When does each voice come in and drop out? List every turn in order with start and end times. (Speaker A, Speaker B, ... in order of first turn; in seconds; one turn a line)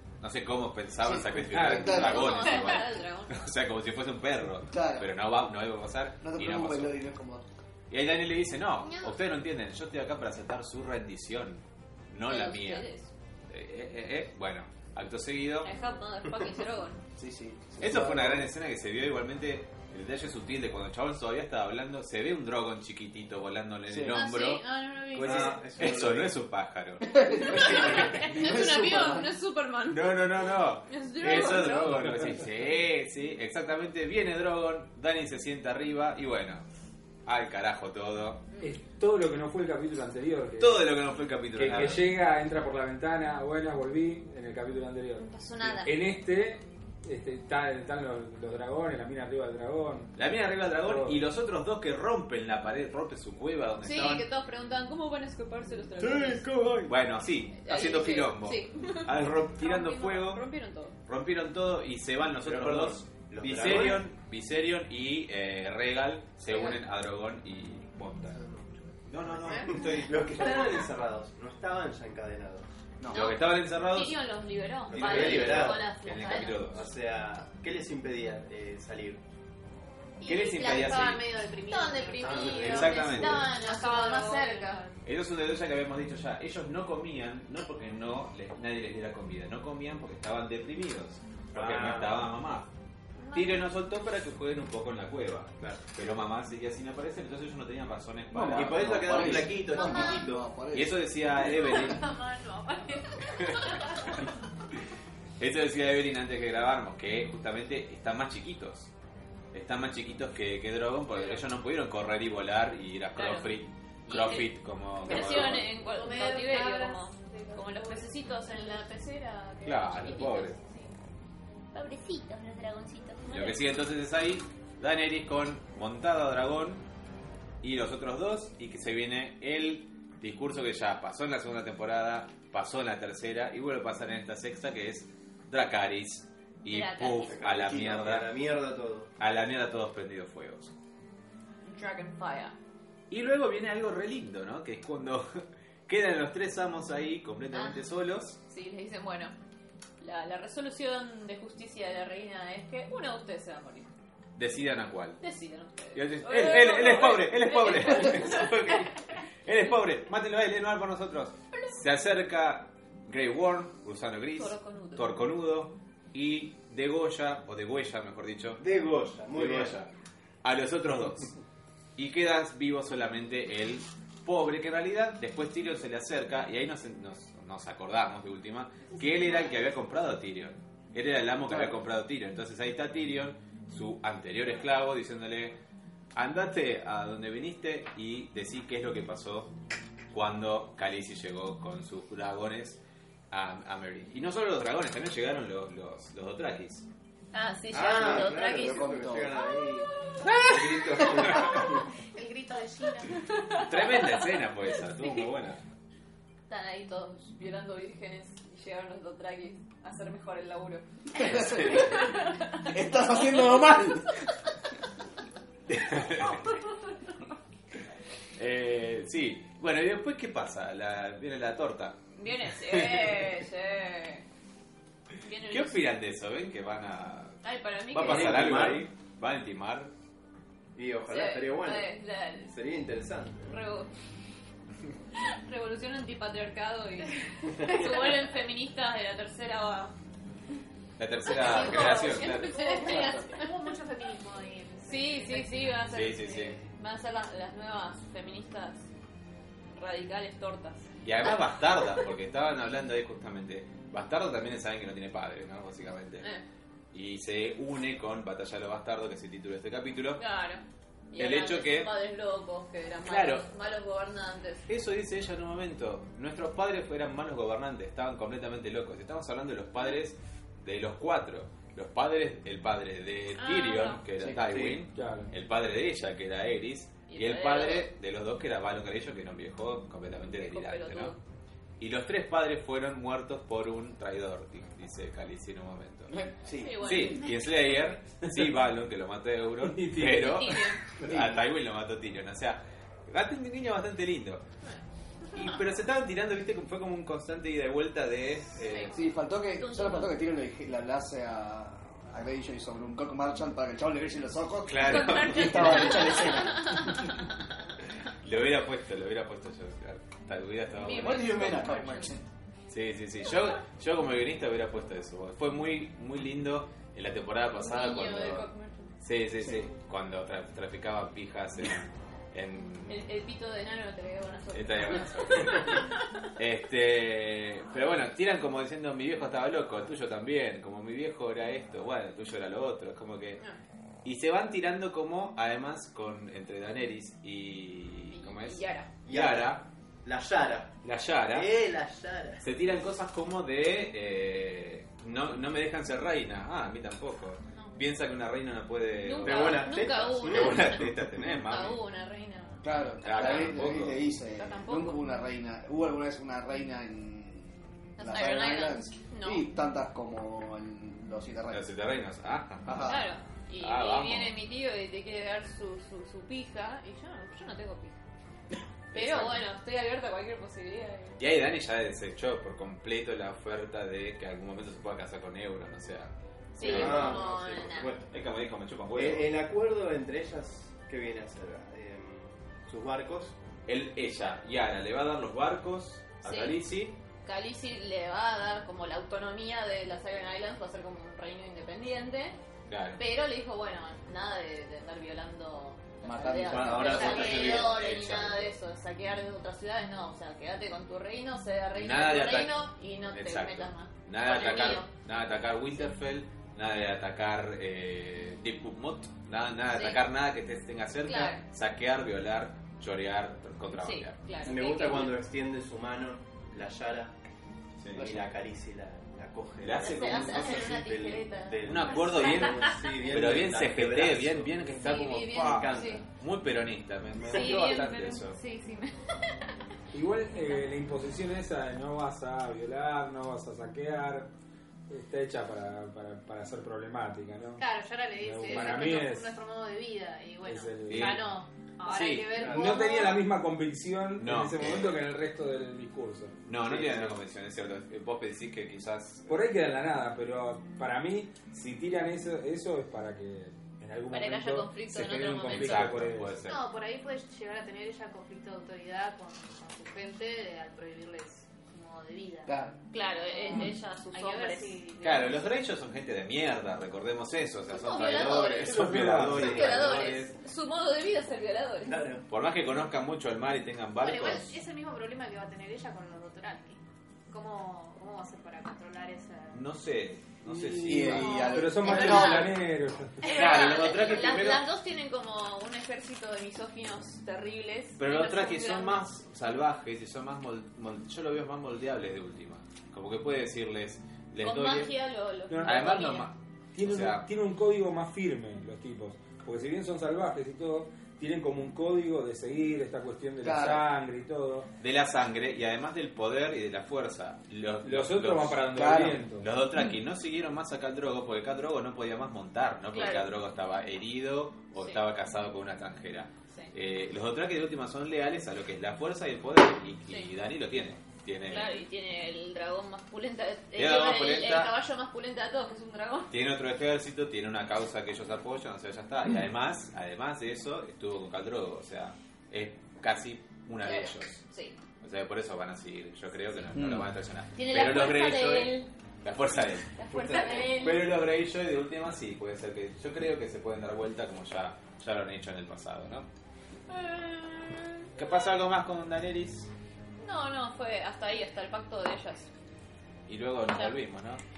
Speaker A: 0.2-7.0
Speaker B: 1.0-2.4
Speaker C: 1.5-2.0
Speaker D: 1.9-3.4
Speaker B: 4.7-5.1
Speaker B: 6.2-7.4
Speaker A: 7.9-12.8
Speaker D: 8.8-9.2
Speaker D: 12.3-13.1
Speaker A: 13.5-15.7
Speaker D: 15.6-17.0
Speaker B: 17.2-18.5
Speaker A: 17.8-27.1
Speaker B: 23.9-24.2
Speaker D: 24.1-25.7
Speaker E: 25.1-26.3
Speaker B: 27.1-29.2
Speaker D: 27.2-30.1
Speaker A: 27.6-28.1
Speaker A: 29.9-36.6
Speaker D: 30.9-32.1
Speaker A: 37.2-38.5
Speaker C: 38.6-40.8
Speaker A: 40.6-42.1
Speaker C: 41.5-50.1
Speaker D: 45.1-45.9
Speaker A: 50.1-54.3
Speaker C: 50.8-51.2
Speaker D: 53.8-56.5
Speaker E: 56.0-57.0
Speaker A: 56.9-60.4
Speaker D: 57.6-60.9
Speaker A: 61.1-68.4
Speaker E: 62.4-64.0
Speaker D: 66.4-66.8
Speaker E: 68.3-72.7
Speaker A: 69.1-70.9
Speaker D: 69.5-69.8
Speaker B: 73.0-73.3
Speaker D: 73.1-76.6
Speaker A: 73.1-74.2
Speaker E: 74.9-75.9
Speaker A: 74.9-76.9
Speaker E: 76.5-79.2
Speaker F: 80.2-85.0
Speaker A: 80.2-81.2
Speaker D: 81.7-84.8
Speaker E: 82.2-83.2
Speaker A: 82.3-83.5
Speaker A: 85.0-92.7
Speaker E: 91.5-92.2
Speaker D: 93.2-93.6
Speaker A: 93.3-102.0
Speaker B: 98.3-101.2
Speaker E: 98.5-100.4
Speaker F: 99.8-100.2
Speaker F: 101.3-104.1
Speaker A: 105.4-108.9
Speaker A: 109.5-115.7
Speaker D: 113.2-113.5
Speaker D: 114.1-114.5
Speaker D: 115.0-120.6
Speaker F: 115.7-118.8
Speaker A: 119.6-120.6
Speaker F: 120.1-120.9
Speaker D: 121.7-123.6
Speaker A: 123.3-126.8
Speaker A: 127.6-138.3
Speaker D: 136.7-137.4
Speaker E: 137.2-139.1
Speaker A: 139.2-140.7
Speaker D: 141.6-142.5
Speaker A: 143.1-145.3
Speaker A: 145.9-148.4
Speaker D: 147.5-147.8
Speaker D: 148.5-149.3
Speaker D: 150.0-153.9
Speaker A: 154.3-155.2
Speaker D: 155.2-158.9
Speaker A: 155.9-168.6
Speaker D: 164.3-165.2
Speaker E: 168.6-169.7
Speaker A: 169.3-169.9
Speaker A: 170.4-171.3
Speaker A: 171.9-185.6
Speaker A: 186.1-189.5
Speaker A: 190.1-196.8
Speaker D: 197.3-199.0
Speaker E: 197.7-199.9
Speaker B: 197.9-199.3
Speaker A: 200.3-201.5
Speaker E: 200.5-201.6
Speaker D: 200.9-201.3
Speaker F: 202.1-203.2
Speaker D: 203.1-204.2
Speaker A: 203.6-205.6
Speaker D: 206.5-213.6
Speaker B: 211.2-212.1
Speaker B: 212.7-214.2
Speaker A: 215.7-216.4
Speaker D: 216.1-217.3
Speaker A: 218.4-223.4
Speaker D: 222.2-224.2
Speaker D: 225.2-225.8
Speaker A: 225.5-227.4
Speaker D: 227.4-228.7
Speaker A: 227.9-229.9
Speaker E: 227.9-228.9
Speaker E: 230.8-233.5
Speaker D: 231.1-232.5
Speaker D: 233.5-233.9
Speaker D: 235.2-239.9
Speaker A: 241.0-242.9
Speaker D: 241.3-243.5
Speaker F: 241.5-245.7
Speaker D: 244.9-248.9
Speaker A: 245.9-246.6
Speaker D: 249.7-252.1
Speaker A: 251.0-256.3
Speaker A: 256.9-260.2
Speaker D: 260.2-264.6
Speaker A: 261.2-261.9
Speaker A: 263.1-263.5
Speaker A: 264.7-281.1
Speaker D: 273.3-274.0
Speaker E: 274.3-274.8
Speaker C: 274.9-275.3
Speaker D: 277.1-277.9
Speaker D: 280.3-281.2
Speaker A: 281.8-286.1
Speaker B: 286.1-287.0
Speaker D: 286.6-287.7
Speaker A: 286.8-294.4
Speaker C: 289.7-290.6
Speaker D: 290.1-290.9
Speaker B: 291.1-291.4
Speaker D: 294.6-295.6
Speaker A: 295.3-298.9
Speaker D: 298.5-300.1
Speaker B: 298.9-306.9
Speaker A: 304.7-306.3
Speaker D: 304.8-307.2
Speaker A: 308.2-311.6
Speaker D: 310.8-312.1
Speaker B: 310.8-312.2
Speaker A: 312.7-318.5
Speaker D: 317.6-318.9
Speaker A: 319.0-323.0
Speaker D: 322.9-326.1
Speaker A: 324.5-325.8
Speaker A: 326.4-333.4
Speaker A: 334.0-339.6
Speaker D: 338.1-338.9
Speaker E: 339.1-340.7
Speaker A: 340.8-341.5
Speaker E: 341.3-342.4
Speaker A: 342.4-351.8
Speaker D: 349.0-353.7
Speaker E: 349.2-350.9
Speaker B: 352.6-361.7
Speaker A: 353.0-354.0
Speaker D: 354.3-355.0
Speaker D: 358.0-359.4
Speaker A: 361.5-362.9
Speaker B: 362.6-363.0
Speaker D: 362.7-367.9
Speaker A: 363.6-364.3
Speaker A: 368.9-369.4
Speaker D: 368.9-371.2
Speaker A: 371.2-377.3
Speaker D: 376.5-377.9
Speaker E: 376.6-378.1
Speaker A: 378.1-379.3
Speaker E: 378.9-383.3
Speaker A: 383.7-387.0
Speaker D: 386.2-386.6
Speaker D: 387.2-392.4
Speaker A: 392.7-393.0
Speaker D: 393.0-404.9
Speaker B: 396.0-397.5
Speaker E: 396.4-397.9
Speaker A: 396.8-398.5
Speaker A: 401.8-414.2
Speaker D: 409.7-410.0
Speaker D: 411.0-411.4
Speaker D: 413.7-415.2
Speaker E: 414.4-417.1
Speaker A: 417.8-418.2
Speaker E: 417.9-426.0
Speaker A: 419.6-420.7
Speaker D: 419.8-423.1
Speaker A: 421.6-428.4
Speaker D: 424.7-426.0
Speaker D: 427.2-428.9
Speaker E: 427.2-427.6
Speaker C: 429.9-434.3
Speaker C: 434.9-437.6
Speaker F: 437.6-443.2
Speaker C: 438.2-439.3
Speaker C: 440.4-441.2
Speaker A: 440.9-442.3
Speaker E: 442.4-442.8
Speaker C: 442.4-446.4
Speaker A: 444.2-444.9
Speaker A: 446.4-449.3
Speaker E: 446.7-447.1
Speaker C: 449.3-456.4
Speaker D: 454.1-456.0
Speaker A: 455.4-456.6
Speaker F: 456.4-462.6
Speaker B: 462.5-462.7
Speaker D: 462.9-464.8
Speaker F: 463.2-465.4
Speaker A: 465.0-470.3
Speaker D: 467.7-472.0
Speaker C: 468.6-469.5
Speaker E: 469.1-469.9
Speaker E: 471.8-472.2
Speaker A: 472.3-474.5
Speaker F: 474.0-479.6
Speaker A: 479.5-481.5
Speaker C: 480.4-483.3
Speaker B: 480.8-482.5
Speaker D: 481.1-482.5
Speaker A: 483.2-484.6
Speaker D: 483.2-489.0
Speaker A: 488.0-494.9
Speaker D: 494.4-496.3
Speaker C: 495.5-496.1
Speaker A: 495.6-497.2
Speaker C: 496.7-504.7
Speaker B: 503.4-503.8
Speaker A: 504.8-508.8
Speaker C: 507.8-509.5
Speaker B: 508.7-509.2
Speaker A: 509.4-521.8
Speaker D: 512.9-513.3
Speaker D: 514.8-515.0
Speaker D: 521.4-526.3
Speaker A: 523.7-524.7
Speaker A: 526.3-534.4
Speaker D: 533.8-534.8
Speaker A: 535.0-546.3
Speaker B: 536.7-537.1
Speaker D: 537.5-538.9
Speaker D: 540.0-541.1
Speaker D: 546.9-548.2
Speaker A: 548.1-549.7
Speaker D: 550.2-552.5
Speaker A: 553.3-554.4
Speaker D: 553.6-554.0